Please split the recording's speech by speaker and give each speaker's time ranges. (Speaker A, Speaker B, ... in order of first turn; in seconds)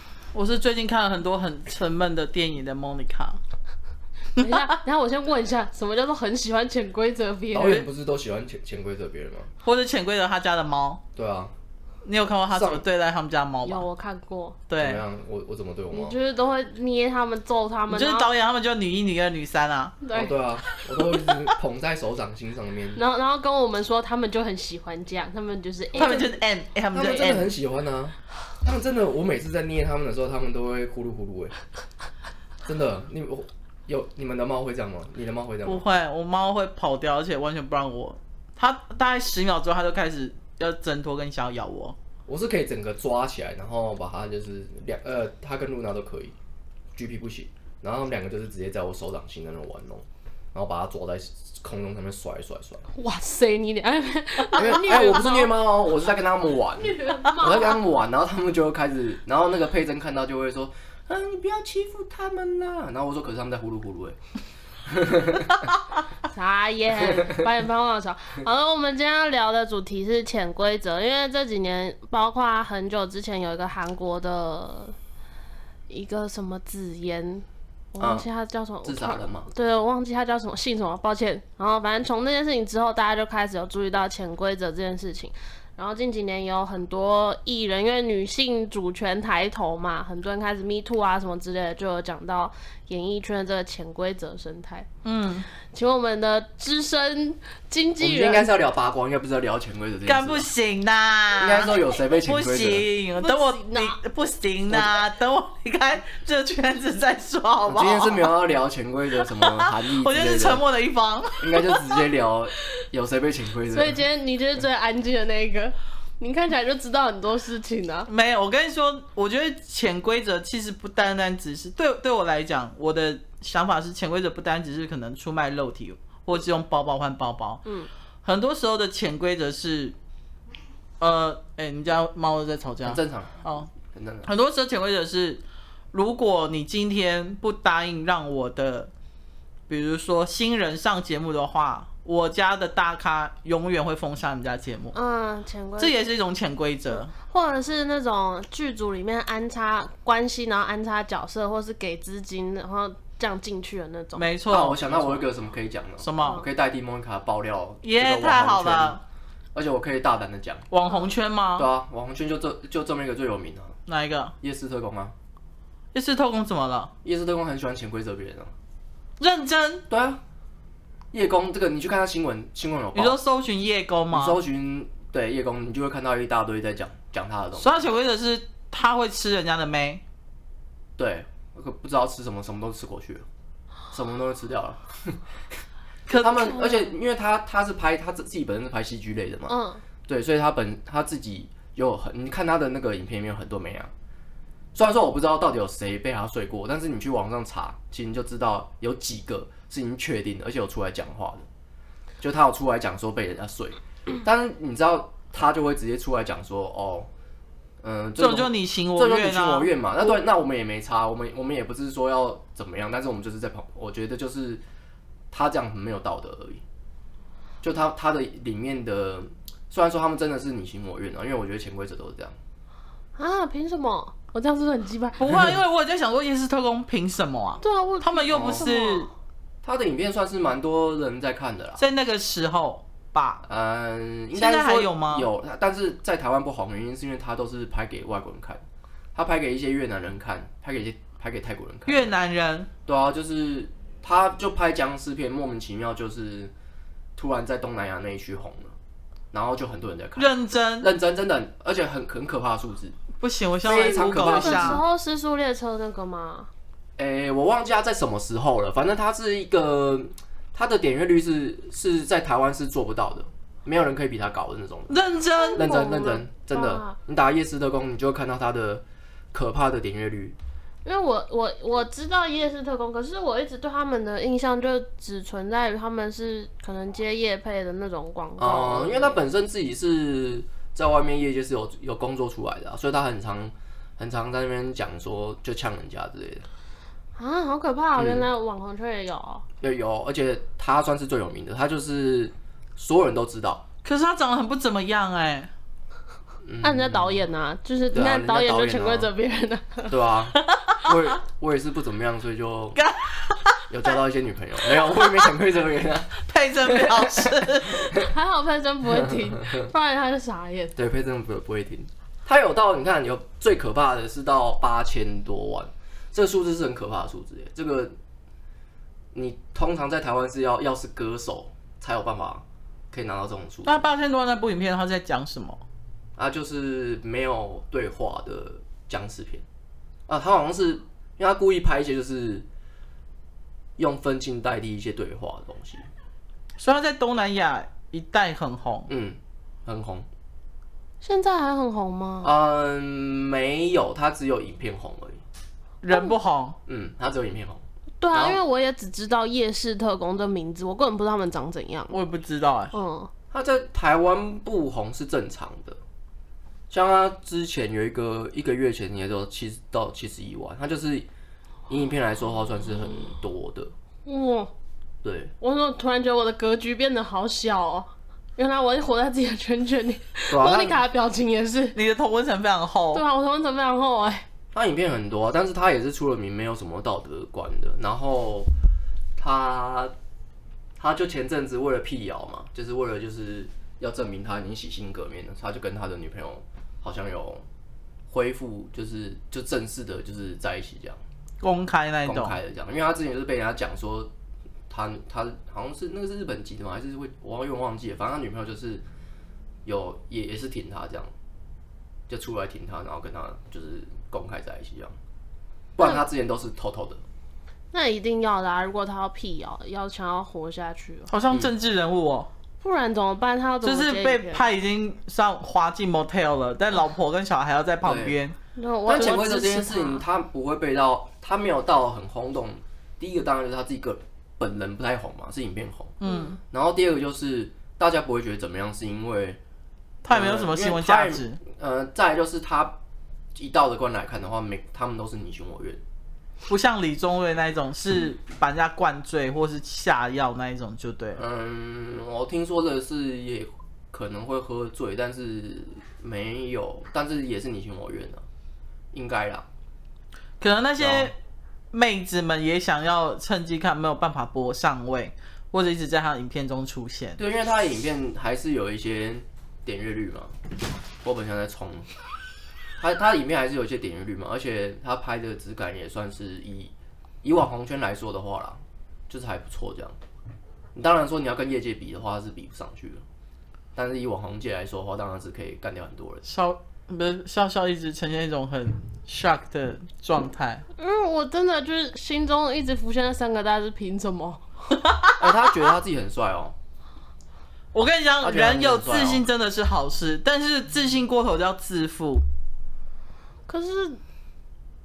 Speaker A: 0.3-3.4, 4.4-4.7, 9.6-11.0, 12.0-13.8, 14.7-15.0, 17.9-20.0, 25.9-27.5, 35.6-41.9, 95.0-95.5, 100.0-108.3, 109.4-111.7, 118.1-127.6, 128.2-129.9, 131.0-133.7, 134.2-135.4, 135.9-138.9, 139.7-144.9, 145.8-147.1, 154.1-155.3, 156.0-156.4, 157.8-159.0, 160.7-161.7, 163.9-164.3, 165.9-166.9, 169.2-169.8, 172.9-174.4, 177.6-180.0, 186.1-186.6, 208.2-209.7, 225.2-229.1, 231.8-233.4, 234.3-235.3, 241.9-242.7, 250.2-250.9, 253.2-254.8, 264.9-265.7, 293.8-295.5, 302.8-303.7, 304.7-305.2, 306.2-307.9, 323.6-325.6, 336.6-338.9, 345.8-346.6, 351.9-352.7, 371.7-373.0, 391.4-392.4, 411.1-412.3, 413.6-418.3, 426.0-426.4, 430.0-431.4, 436.5-441.2, 450.4-451.1, 451.7-457.2, 476.2-480.6, 484.8-485.3, 487.7-492.2
Speaker B: 4.3-7.8, 13.6-14.6, 15.9-18.3, 20.0-20.8, 22.9-26.4, 52.9-55.6, 56.8-57.8, 66.3-74.9, 75.9-94.9, 95.6-98.5, 103.2-104.0, 113.7-118.1, 144.9-145.9, 146.9-154.3, 189.5-189.8, 223.2-225.2, 227.6-229.1, 253.7-256.5, 265.4-266.9, 270.8-279.2, 287.2-289.4, 296.6-299.9, 307.9-310.8, 341.0-342.3, 345.9-346.1, 348.0-352.0, 352.7-353.1, 364.1-364.5, 365.4-371.8, 372.9-374.2, 405.8-406.1, 407.7-411.1, 412.6-414.4, 418.6-420.0, 426.0-426.3, 480.8-484.4, 493.5-494.0
Speaker C: 7.5-9.5, 11.1-11.5, 12.5-12.8, 14.8-16.1, 20.1-23.0, 26.9-31.5, 32.6-35.8, 42.3-46.3, 46.9-52.8, 54.5-64.2, 64.8-65.7, 78.0-78.2, 78.8-79.5, 98.0-100.5, 101.4-102.9, 107.7-110.6, 111.4-114.0, 132.8-134.3, 154.5-159.0, 159.5-160.7, 161.6-163.7, 164.4-165.1, 167.0-168.5, 169.9-170.2, 171.1-173.2, 174.1-177.8, 181.0-183.2, 183.9-185.2, 186.1-189.6, 190.1-193.9, 194.7-201.4, 202.2-207.1, 207.8-214.6, 215.3-216.6, 217.6-222.4, 228.3-228.7, 229.6-231.8, 233.4-238.6, 239.1-242.1, 242.8-246.5, 247.2-248.8, 249.3-253.0, 253.6-254.8, 257.0-265.0, 265.5-270.4, 278.4-286.4, 288.0-288.3, 289.6-293.6, 296.4-297.2, 297.9-299.1, 299.9-302.8, 303.7-308.1, 309.0-309.7, 310.8-317.9, 319.1-323.9, 326.2-329.4, 330.1-332.4, 333.8-335.9, 338.9-340.1, 342.2-345.2, 346.6-348.4, 353.3-355.8, 356.7-361.1, 361.7-363.7, 365.0-365.3, 370.3-370.8, 374.5-378.5, 379.2-379.9, 380.8-387.4, 388.1-391.0, 392.0-394.1, 394.7-398.8, 399.6-401.1, 402.1-404.9, 405.8-407.0, 417.8-418.2, 418.9-426.0, 426.5-429.4, 430.1-432.8, 433.3-435.8, 441.1-448.2, 448.9-449.5, 450.8-451.1, 457.2-460.3, 461.0-461.9, 462.8-470.0, 470.7-473.0, 473.7-476.2, 485.2-486.5, 488.2-489.2